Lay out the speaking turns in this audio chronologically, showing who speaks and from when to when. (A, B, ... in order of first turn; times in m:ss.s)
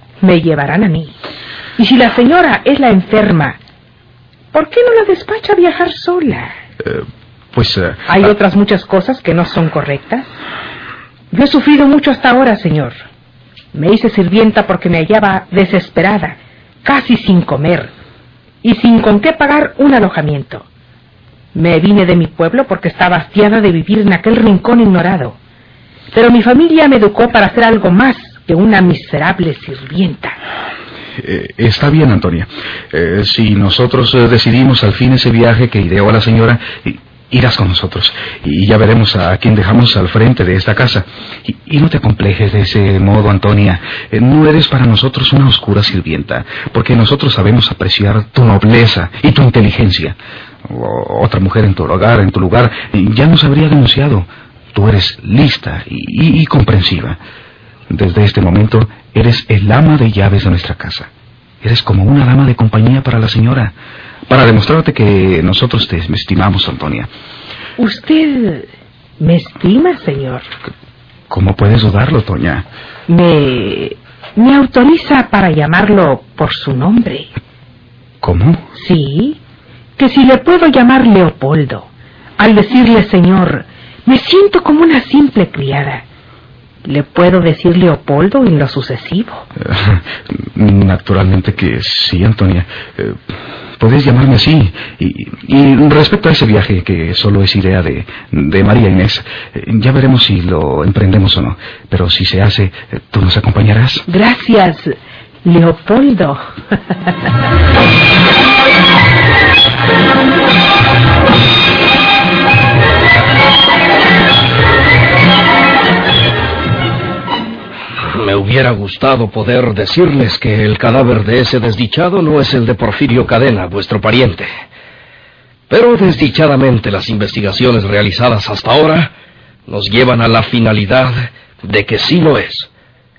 0:00.2-0:01.2 A
0:01.8-0:03.6 A
0:04.5-0:06.5 A
0:06.8-0:08.3 B
0:08.1-0:10.3 A
0:11.3-0:13.0 A
0:13.7-0:17.9 A
0:18.6-0:20.6 A
0:21.5-0:25.4 A
0:26.1-0:30.4 A
0:31.2-0:50.2 B
0:50.7-0:57.2 B
0:57.9-1:01.1 B
1:01.6-1:03.7 B
1:04.3-1:07.1 B
1:07.8-1:08.7 A
1:09.2-1:10.5 A
1:11.3-1:12.6 B
1:13.1-1:17.3 A
1:18.2-1:18.6 B
1:18.7-1:19.4 A
1:20.0-1:26.0 A
1:26.8-1:29.4 A
1:29.7-1:33.2 B
1:33.8-1:44.0 B
1:44.1-1:46.4 A
1:58.0-2:04.5 C
2:05.7-2:09.1 C
2:09.7-2:12.7 C